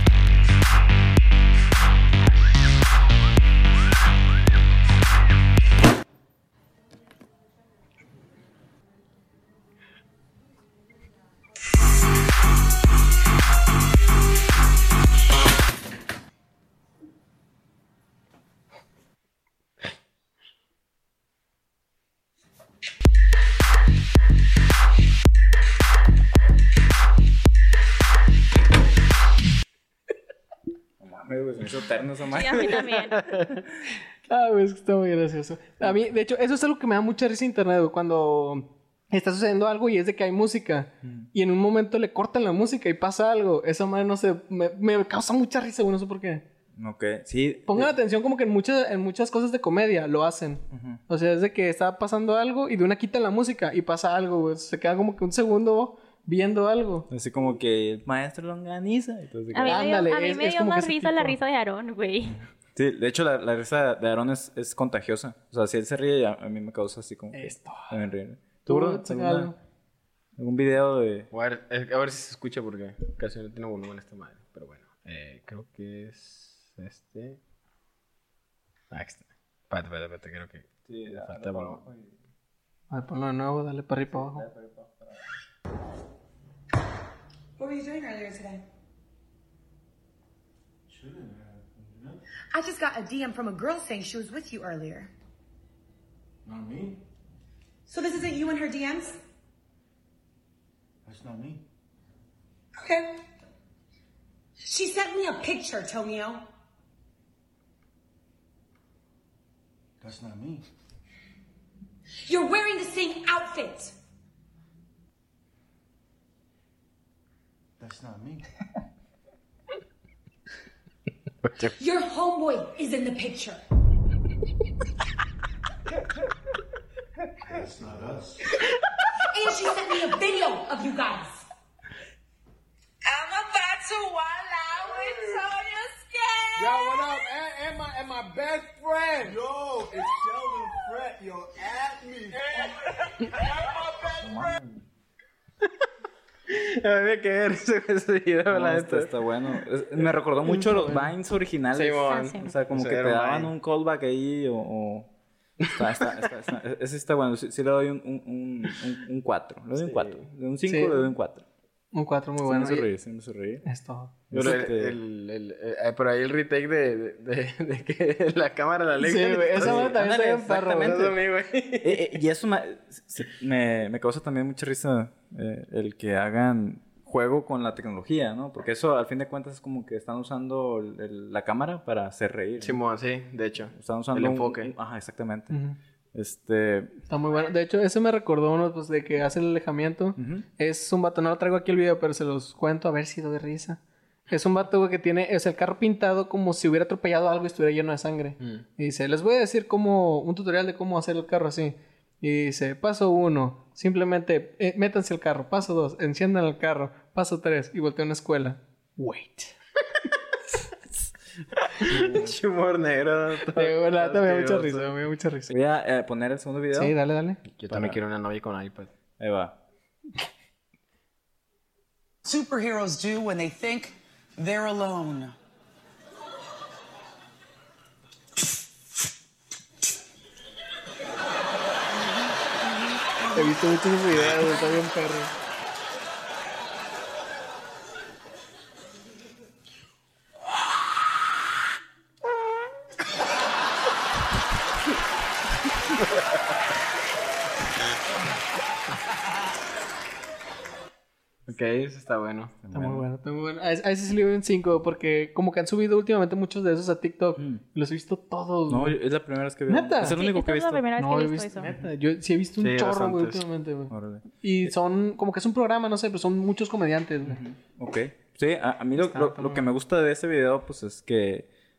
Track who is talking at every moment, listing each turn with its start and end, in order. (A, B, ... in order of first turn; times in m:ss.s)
0:31.0-0:32.8 A
0:32.3-0:33.3 B
0:34.3-0:46.4 C
0:41.0-0:41.3 A
0:46.8-0:47.9 A
0:47.7-0:57.1 C
0:50.7-0:51.0 A
0:57.1-0:59.9 A
0:59.5-1:02.4 B
0:59.7-1:01.4 C
1:02.3-1:09.5 A
1:07.3-1:08.0 C
1:08.7-1:09.6 C
1:10.4-1:11.3 A
1:11.3-1:17.4 D
1:18.9-1:21.8 D
1:20.8-1:22.2 A
1:22.9-1:24.5 C
1:24.1-1:25.2 A
1:27.6-1:28.6 E
1:30.9-1:32.2 F
1:32.5-1:35.1 E
1:36.4-1:37.0 F
1:37.9-1:39.2 E
1:41.0-1:41.6 F
1:42.8-1:43.2 E
1:44.6-1:46.5 E
1:50.0-1:50.6 F
1:52.3-1:54.0 E
1:57.8-1:58.4 F
2:01.4-2:01.8 D
2:01.8-2:03.6 E
2:07.4-2:08.5 F
2:09.3-2:11.5 E
2:14.7-2:15.5 F
2:16.6-2:22.8 F
2:23.4-2:24.8 F
2:24.2-2:24.5 A
2:26.5-2:29.1 D
2:28.5-2:35.1 A
2:30.4-2:31.1 C
2:31.7-2:33.5 D
2:32.1-2:32.5 B
2:35.7-2:41.4 A
2:39.8-2:40.2 D
2:40.7-2:41.1 C
2:41.9-2:42.9 C
2:42.4-2:43.6 A
2:43.6-2:44.2 C
2:44.3-2:45.0 A
2:44.3-2:50.0 D
2:49.0-2:51.1 C
2:49.6-2:51.1 A
2:50.6-2:52.0 D
2:51.8-3:02.8 A
3:02.6-3:04.7 D
3:03.7-3:05.5 A
3:05.5-3:05.8 C
3:06.1-3:06.9 A
3:07.1-3:29.5 C
3:10.2-3:10.5 A
3:31.8-3:35.0 D
3:31.9-3:32.4 A
3:33.6-3:35.5 C
3:35.5-3:37.0 A
3:36.7-3:37.4 C
3:37.5-3:38.9 D
3:37.7-3:38.0 A
3:39.2-3:39.6 A
3:42.2-3:45.4 G
3:53.3-3:55.3 C
4:11.5-4:12.6 D
4:12.6-4:13.0 A
4:12.7-4:19.0 C
4:17.4-4:17.6 A
4:18.7-4:20.8 A
4:19.7-4:20.2 C
4:20.0-4:21.7 B
4:21.0-4:27.4 C
4:22.6-4:23.4 D
4:23.9-4:24.7 A
4:27.3-4:31.5 A
4:29.0-4:29.7 C